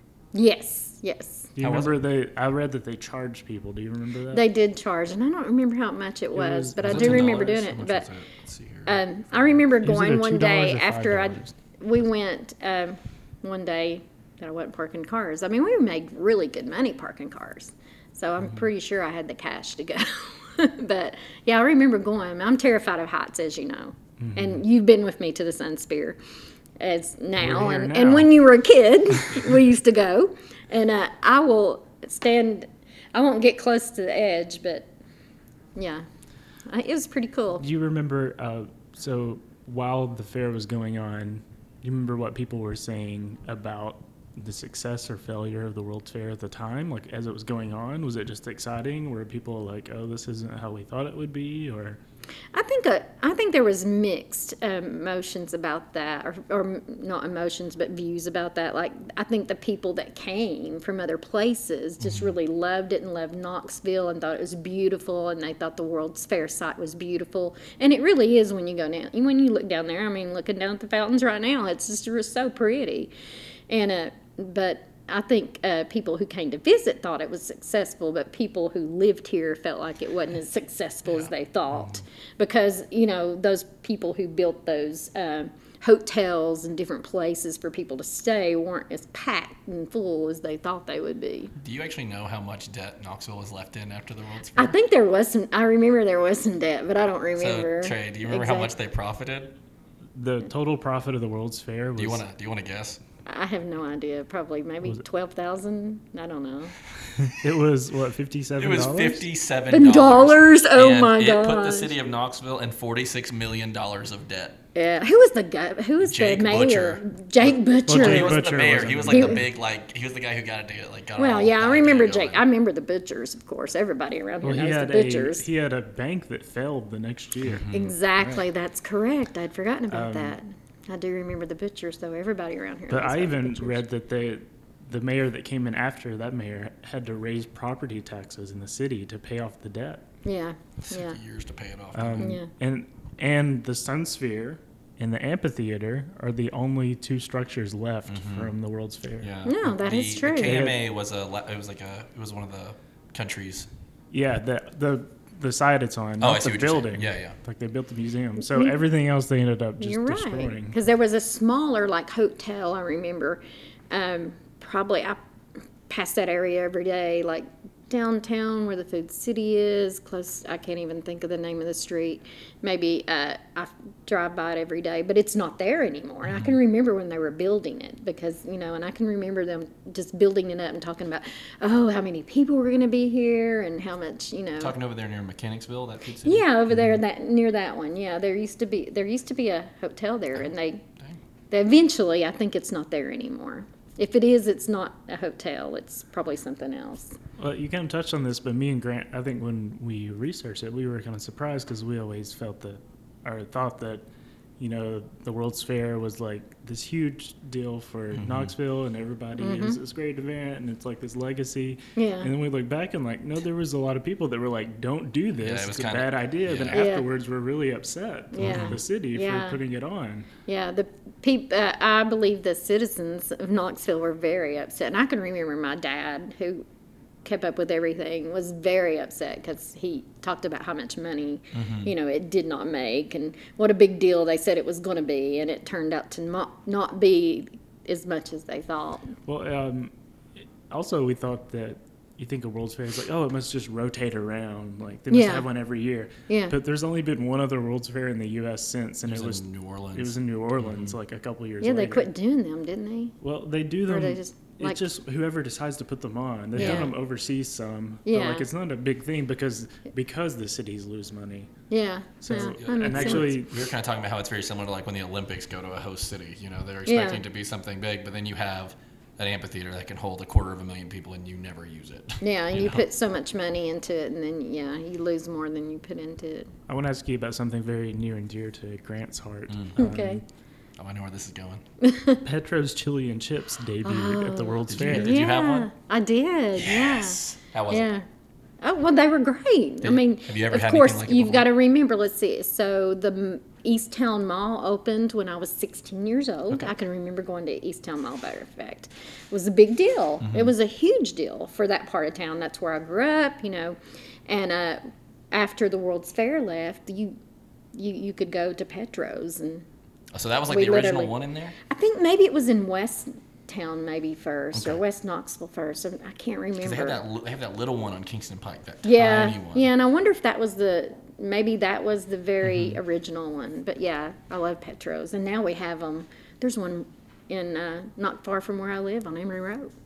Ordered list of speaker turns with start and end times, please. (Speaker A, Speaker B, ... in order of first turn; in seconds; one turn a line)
Speaker A: 0.3-1.5
Speaker B: 1.6-4.4
Speaker C: 1.6-2.0
Speaker A: 4.3-8.1
Speaker B: 6.3-7.6
Speaker C: 6.8-9.6
Speaker A: 8.9-26.2
Speaker B: 9.8-11.5
Speaker B: 24.2-24.6
Speaker A: 26.8-34.9
Speaker B: 27.4-28.3
Speaker A: 35.8-36.0
Speaker A: 36.7-37.6
Speaker B: 37.6-52.0
Speaker A: 52.5-73.1
Speaker A: 73.7-91.5
Speaker C: 91.6-94.7
Speaker A: 94.6-98.7
Speaker C: 97.4-99.5
Speaker B: 100.2-102.2
Speaker C: 102.0-103.0
Speaker A: 103.3-106.8
Speaker B: 107.2-109.2
Speaker C: 108.6-114.6
Speaker A: 109.7-111.9
Speaker A: 114.8-118.4
Speaker C: 116.0-122.4
Speaker B: 117.9-119.4
Speaker A: 119.1-119.4
Speaker A: 121.2-125.5
Speaker B: 124.4-128.4
Speaker C: 127.5-127.9
Speaker A: 127.7-133.8
Speaker B: 129.9-130.4
Speaker B: 132.9-140.0
Speaker A: 140.2-141.2
Speaker C: 140.8-142.4
Speaker B: 141.9-149.3
Speaker A: 142.2-142.5
Speaker C: 148.1-148.5
Speaker C: 149.2-153.7
Speaker A: 149.4-150.7
Speaker B: 150.4-150.8
Speaker B: 154.1-160.8
Speaker C: 156.2-157.4
Speaker A: 159.8-165.2
Speaker A: 165.9-184.7
Speaker C: 176.3-176.5
Speaker C: 184.6-186.4
Speaker A: 186.3-190.8
Speaker C: 190.4-191.2
Speaker A: 191.5-197.2
Speaker B: 197.4-204.1
Speaker B: 204.6-220.3
Speaker C: 208.1-208.5
Speaker A: 209.4-209.8
Speaker A: 212.0-212.3
Speaker C: 215.4-216.9
Speaker A: 216.7-217.1
Speaker A: 218.3-219.6
Speaker C: 218.4-218.8
Speaker A: 220.5-226.7
Speaker A: 227.2-239.2
Speaker C: 231.5-231.9
Speaker B: 239.3-239.9
Speaker B: 240.7-252.1
Speaker A: 245.1-245.5
Speaker A: 246.3-246.6
Speaker C: 249.1-250.9
Speaker A: 251.6-253.2
Speaker B: 253.2-261.5
Speaker A: 253.9-254.8
Speaker A: 256.6-256.9
Speaker C: 256.6-256.9
Speaker A: 258.1-258.5
Speaker A: 261.7-263.3
Speaker B: 262.2-263.6
Speaker C: 262.3-272.9
Speaker A: 266.9-267.2
Speaker A: 272.2-276.5
Speaker B: 276.7-280.2
Speaker A: 279.8-280.2
Speaker C: 280.8-281.6
Speaker A: 281.8-282.2
Speaker B: 282.2-285.2
Speaker A: 283.9-288.1
Speaker C: 284.7-285.7
Speaker C: 286.6-287.9
Speaker A: 288.6-307.2
Speaker C: 289.8-291.5
Speaker C: 300.2-300.5
Speaker A: 307.7-309.6
Speaker C: 310.1-311.6
Speaker A: 310.5-311.1
Speaker A: 311.7-317.0
Speaker C: 314.5-314.8
Speaker C: 316.6-319.7
Speaker A: 318.9-329.7
Speaker C: 322.5-322.8